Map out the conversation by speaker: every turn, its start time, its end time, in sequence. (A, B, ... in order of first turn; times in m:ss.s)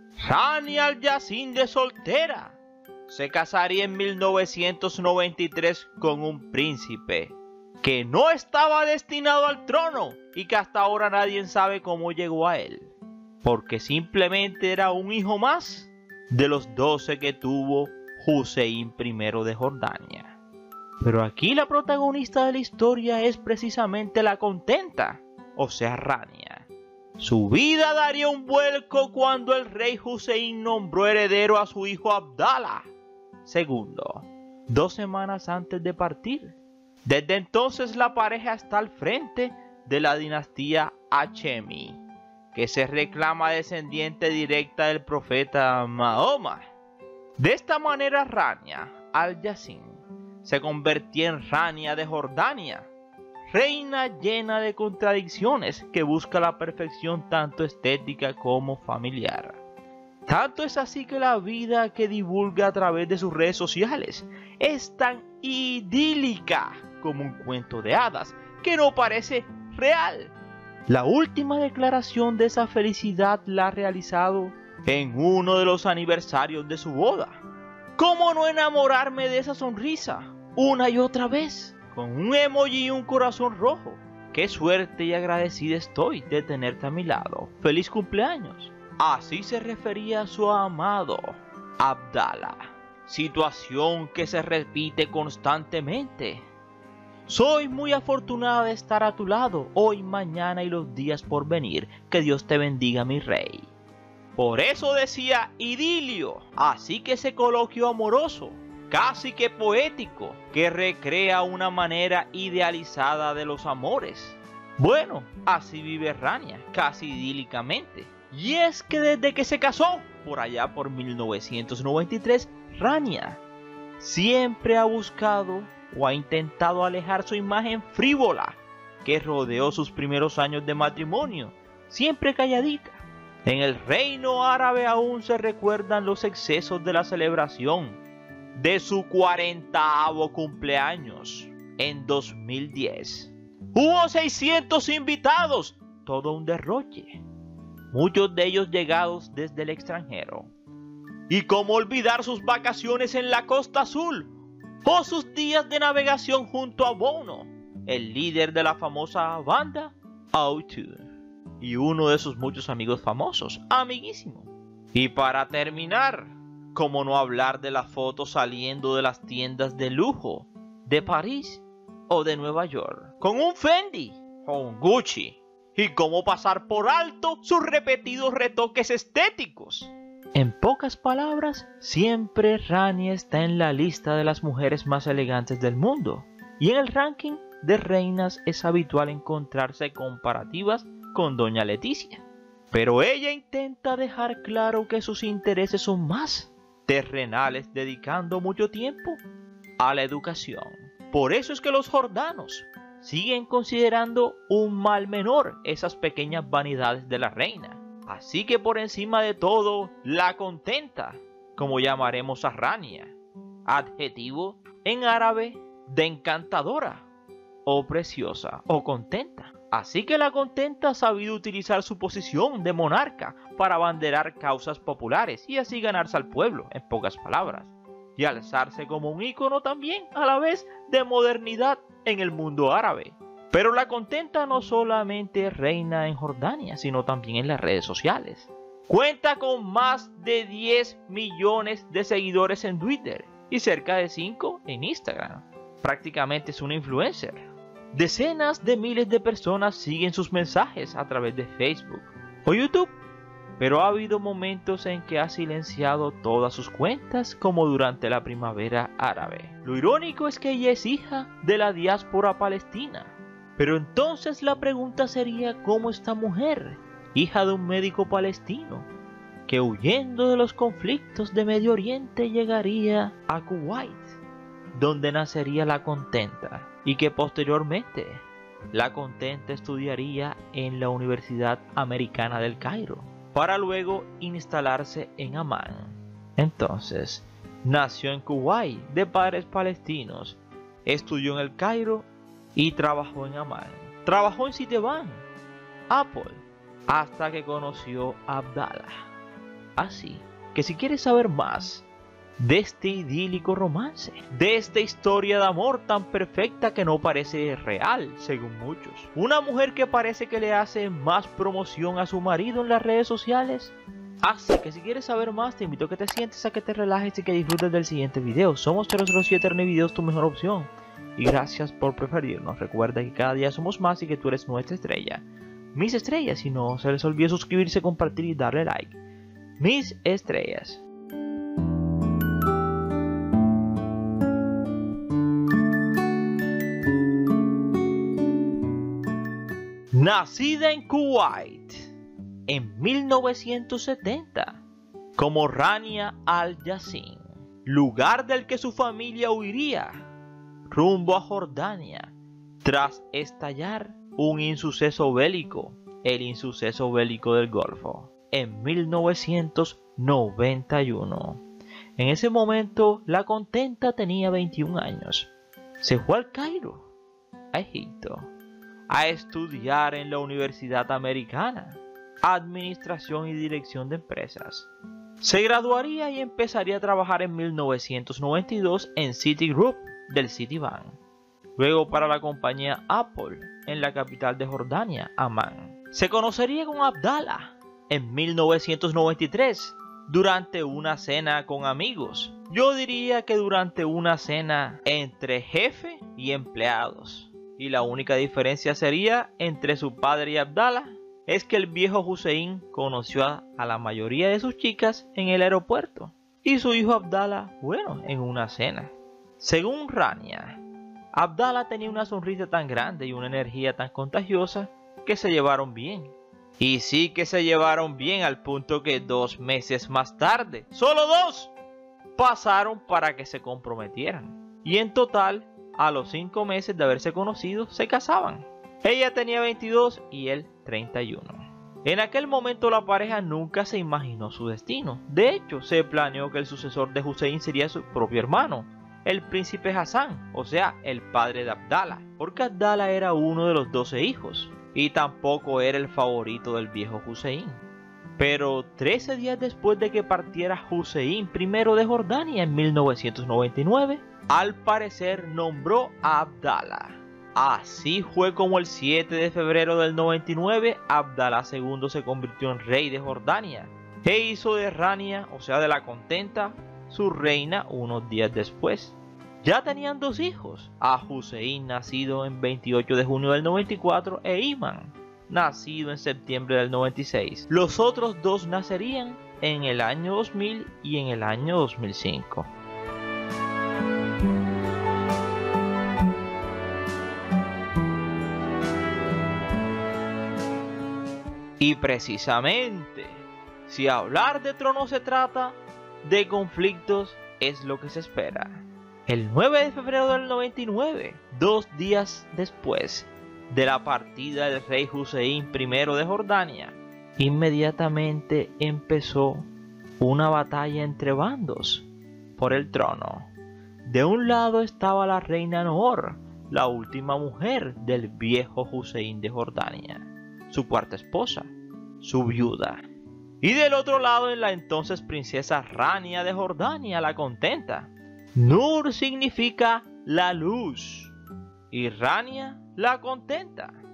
0:00.2-0:02.6 A
0:03.1-0:20.4 A
0:21.0-0:26.7 A
0:27.2-0:32.9 A
0:33.4-0:42.0 A
0:42.5-0:46.6 A
0:47.4-0:52.9 A
0:53.5-0:59.6 A
1:00.2-1:10.3 A
1:10.9-1:17.4 A
1:18.0-1:36.4 A
1:37.3-1:43.7 A
1:44.4-2:03.4 A
2:04.0-2:18.0 A
2:18.5-2:27.2 A
2:27.9-2:30.5 A
2:31.3-2:34.3 A
2:34.8-2:41.1 A
2:41.6-3:19.2 A
3:19.8-3:33.1 A
3:33.6-3:37.0 A
3:37.6-4:07.4 A
4:07.9-4:12.9 A
4:13.6-4:28.9 A
4:29.5-4:34.2 A
4:34.7-4:55.2 A
4:55.9-4:59.1 A
4:59.8-5:01.8 A
5:02.4-5:29.0 A
5:29.6-5:30.8 A
5:39.9-5:41.9 A
5:42.5-5:44.6 A
5:45.2-5:50.0 A
5:50.7-6:01.4 A
6:02.0-6:05.3 A
6:05.8-6:06.9 A
6:07.5-6:08.3 A
6:08.9-6:14.7 A
6:15.2-6:21.0 A
6:21.6-6:50.6 A
6:51.1-7:01.5 A
7:02.2-7:27.6 A
7:28.2-8:02.5 A
8:11.6-8:29.5 A
8:30.0-8:33.3 A
8:33.8-8:42.8 A
8:43.4-8:51.1 A
8:51.7-8:53.8 A